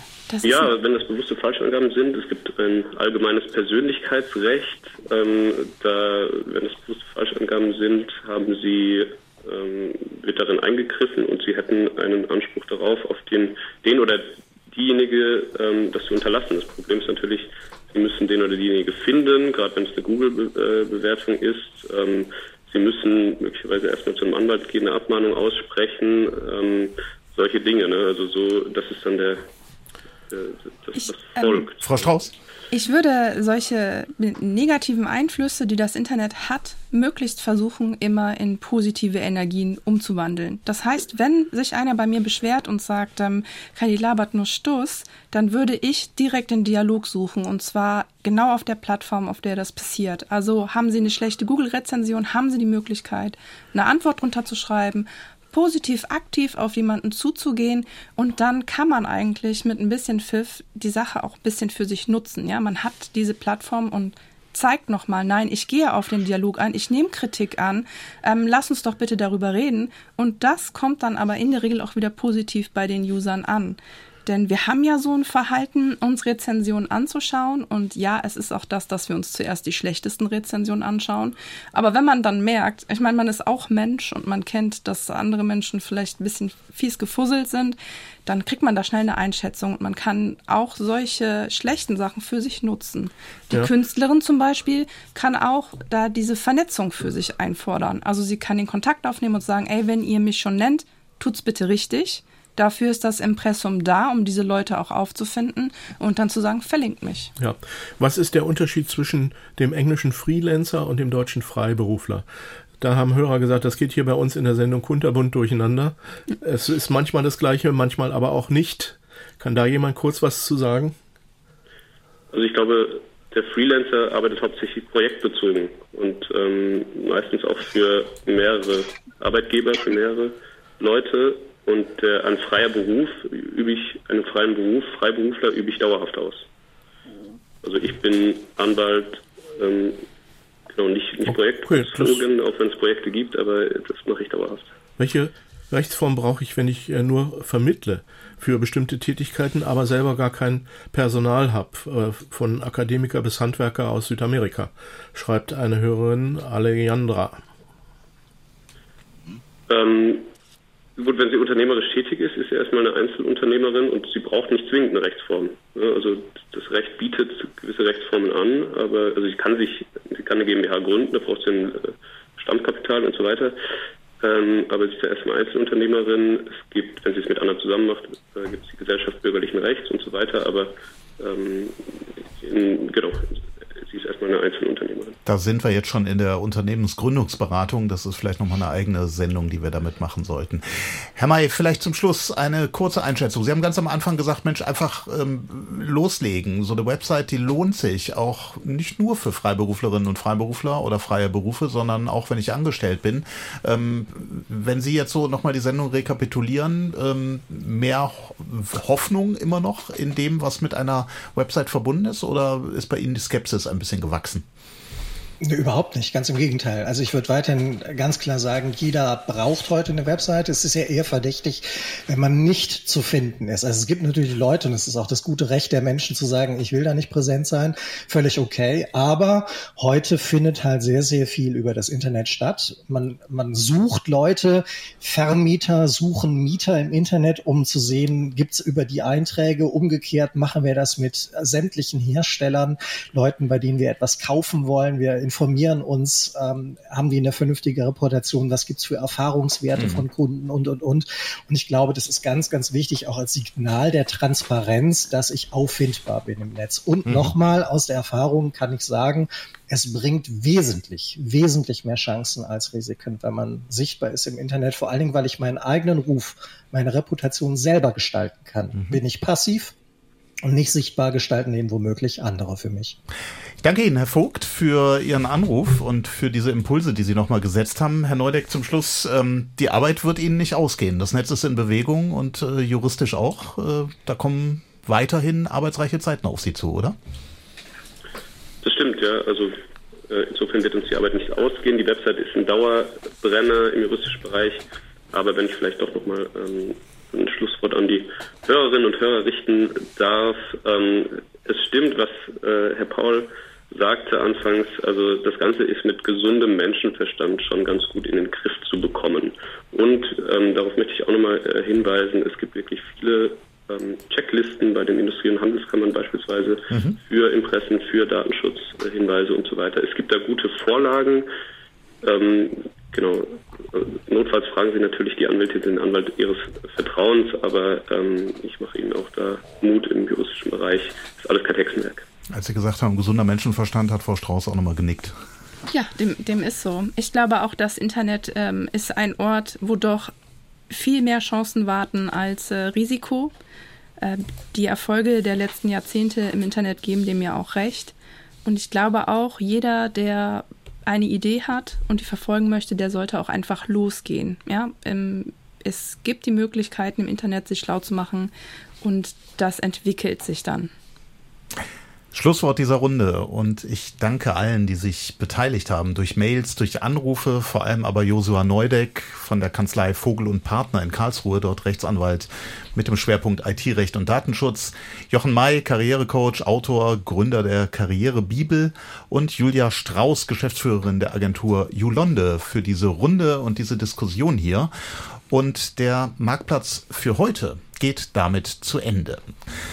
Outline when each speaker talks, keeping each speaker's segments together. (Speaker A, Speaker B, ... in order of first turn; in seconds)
Speaker A: 0.3-0.7, 30.9-31.6, 32.7-107.3, 335.7-340.1, 340.7-343.3, 344.0-358.3, 358.8-360.7
Speaker B: 0.4-29.4, 30.3-31.9, 122.3-136.4, 137.6-140.0, 140.7-144.7, 159.7-160.3, 161.0-173.6, 174.2-185.2, 288.6-289.5, 290.1-321.3, 322.0-332.1
Speaker C: 31.8-32.3, 185.2-214.4, 257.1-257.3, 273.6-286.9, 316.7-317.0, 332.3-335.1, 362.1-384.7, 385.3-389.3
Speaker D: 107.4-112.2, 112.8-121.0, 141.2-142.2, 145.0-157.4
Speaker E: 215.4-269.7, 270.4-273.0